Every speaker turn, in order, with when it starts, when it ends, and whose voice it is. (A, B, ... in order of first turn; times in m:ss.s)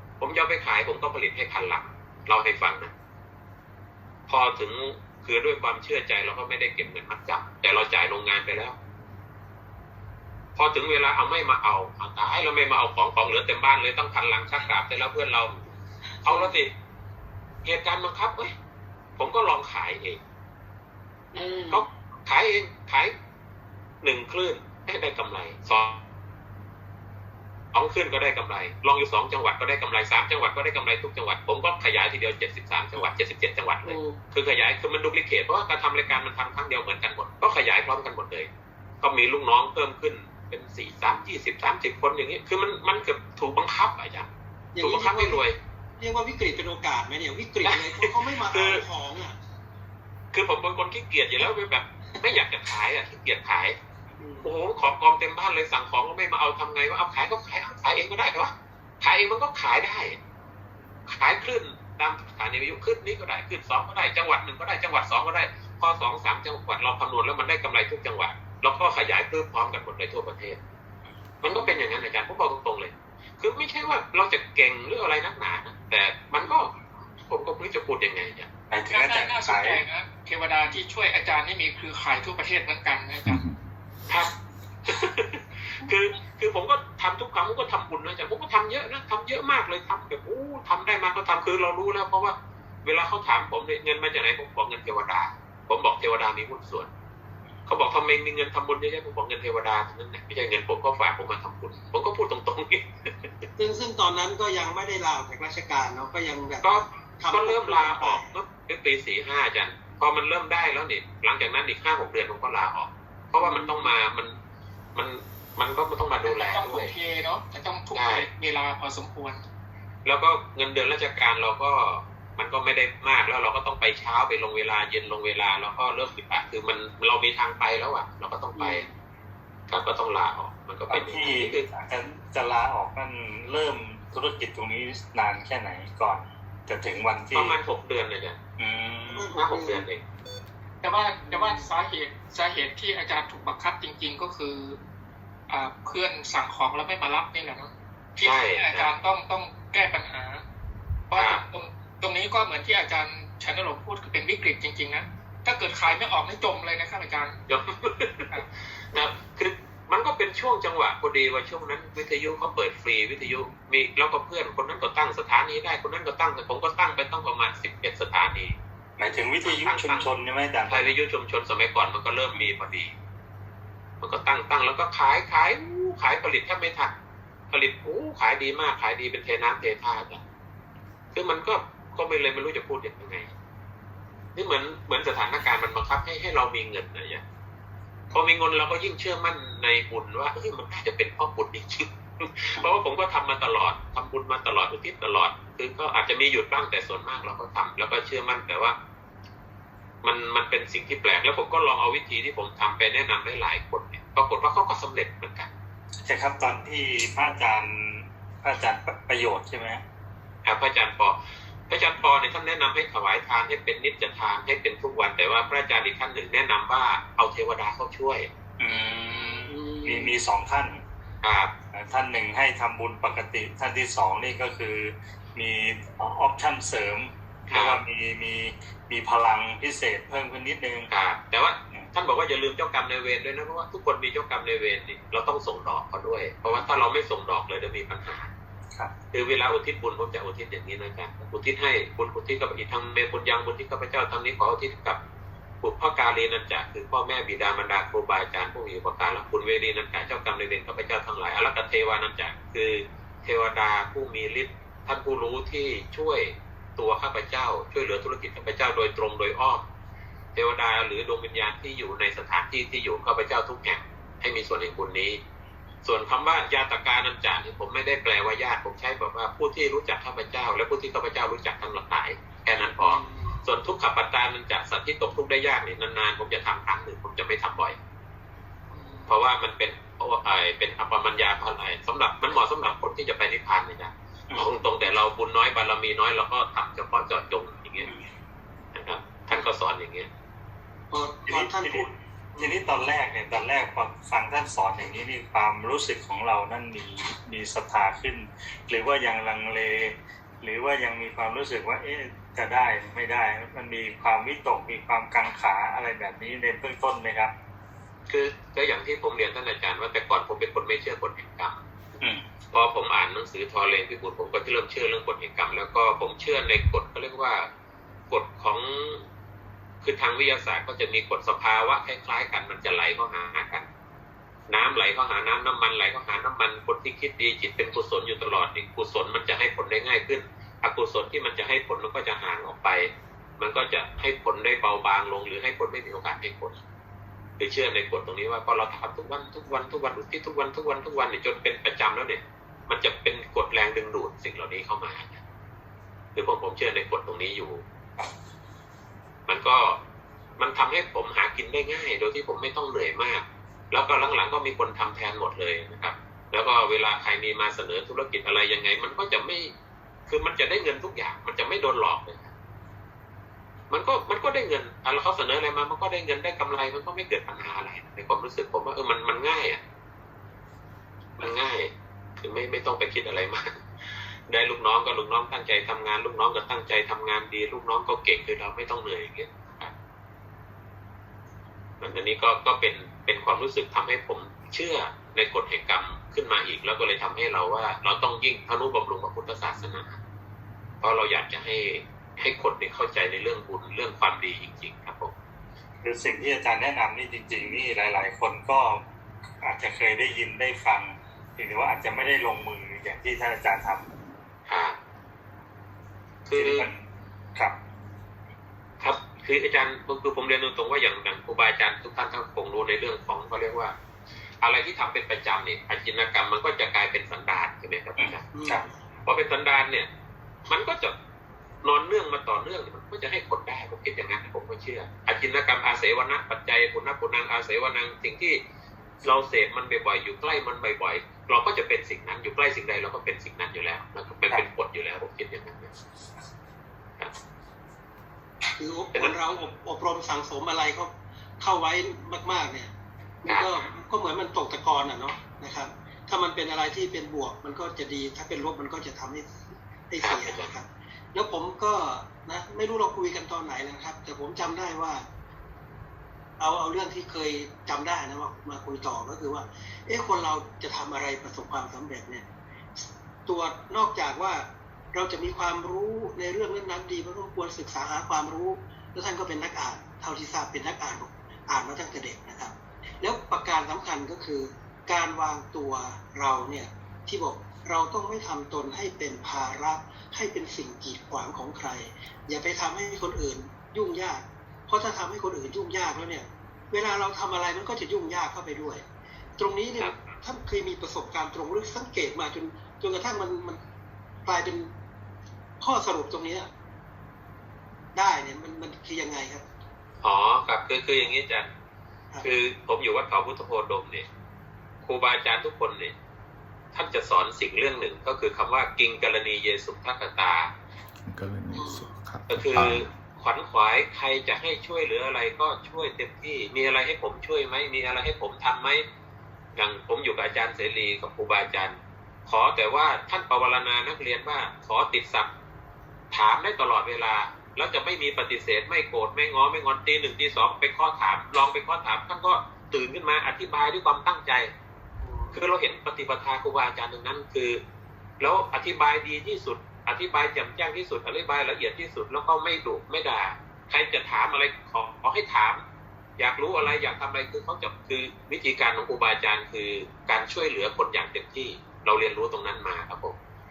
0:00.2-0:02.9 A
0:04.3-0:08.8 A
0:10.6-0:15.6 A
0:16.2-0:16.7 A
0:16.2-0:16.5 B
0:17.6-0:18.5 A
0:19.2-0:20.2 A
0:21.3-0:21.9 B
0:21.7-0:23.1 A
0:24.0-0:26.0 A
0:27.7-0:38.5 A
0:33.8-0:34.2 B
0:39.0-0:44.3 A
0:44.8-0:45.4 B
0:44.8-0:45.6 A
0:46.0-0:49.4 B
0:47.6-0:48.8 A
0:50.3-0:53.8 A
0:54.2-0:54.5 B
0:54.4-1:00.2 A
1:01.1-1:10.6 A
1:11.4-1:16.7 A
1:11.5-1:11.8 B
1:17.3-1:18.5 A
1:18.7-1:19.8 C
1:18.9-1:23.4 D
1:23.3-1:23.6 E
1:24.8-1:36.9 A
1:37.7-1:43.3 A
1:43.6-1:48.3 B
1:46.6-1:54.4 A
1:53.4-1:53.9 B
1:55.0-1:56.9 A
1:56.2-1:59.4 D
1:58.0-1:58.3 A
2:00.0-2:08.9 A
2:08.6-2:08.9 B
2:09.7-2:11.6 A
2:10.9-2:17.6 C
2:17.3-2:18.4 A
2:18.6-2:19.3 C
2:19.1-2:19.9 B
2:19.4-2:20.0 A
2:20.8-2:24.8 D
2:21.3-2:21.6 B
2:25.5-2:30.4 D
2:28.2-2:28.9 A
2:31.1-2:37.4 D
2:31.2-2:31.4 A
2:37.5-2:38.4 A
2:38.9-2:48.6 A
2:49.0-2:51.0 C
2:49.4-2:50.1 A
2:50.7-2:52.9 A
2:54.0-2:56.9 A
2:57.5-3:00.2 A
3:01.1-3:03.3 A
3:04.4-3:07.2 A
3:08.1-3:18.8 A
3:12.6-3:12.8 C
3:20.0-3:25.5 A
3:26.0-3:29.8 C
3:30.4-3:31.2 A
3:31.7-3:38.3 A
3:38.6-3:40.8 C
3:38.7-3:40.2 B
3:41.2-3:41.5 A
3:41.7-3:50.9 C
3:47.5-3:47.8 A
3:50.9-3:58.3 A
3:59.1-4:05.0 A
4:05.6-4:19.6 A
4:20.4-4:25.2 A
4:25.8-4:37.8 A
4:32.6-4:33.4 B
4:38.7-4:39.1 B
4:39.1-4:47.9 A
4:48.8-4:50.1 A
4:50.9-4:52.7 B
4:51.3-4:51.9 C
4:52.4-5:07.3 C
5:08.1-5:11.6 A
5:12.5-5:17.5 A
5:18.1-5:19.0 A
5:19.8-5:23.7 A
5:24.5-5:36.6 A
5:24.6-5:24.8 B
5:37.4-5:45.2 A
5:46.2-5:47.6 A
5:49.3-5:49.8 A
5:50.4-5:59.5 A
6:00.1-6:02.3 A
6:03.7-6:09.6 A
6:11.2-6:19.7 A
6:21.8-6:30.0 A
6:30.8-6:35.1 A
6:35.8-6:38.8 C
6:39.4-6:43.9 C
6:44.5-6:44.8 A
6:46.3-6:46.7 A
6:46.4-6:46.8 C
6:48.8-6:53.7 A
6:54.4-6:58.2 A
6:58.0-6:58.7 C
6:58.3-6:58.7 B
6:59.0-6:59.9 A
7:00.5-7:01.0 A
7:01.6-7:08.4 A
7:09.0-7:15.7 A
7:18.6-7:22.7 B
7:23.2-7:29.3 B
7:29.9-7:35.0 B
7:30.0-7:30.5 A
7:36.4-7:42.3 B
7:42.8-8:08.8 B
8:09.4-8:13.6 B
8:14.2-8:14.7 B
8:15.6-8:16.5 B
8:18.0-8:19.4 B
8:20.0-8:21.5 A
8:22.2-8:24.1 A
8:24.8-8:25.9 A
8:26.7-8:30.5 A
8:31.1-8:32.9 E
8:31.5-8:31.8 B
8:32.3-8:38.8 A
8:39.6-8:41.8 A
8:42.3-8:45.3 A
8:46.1-8:54.5 A
8:55.0-8:55.4 B
8:55.3-8:57.6 A
8:58.2-9:05.6 A
9:06.2-9:13.2 A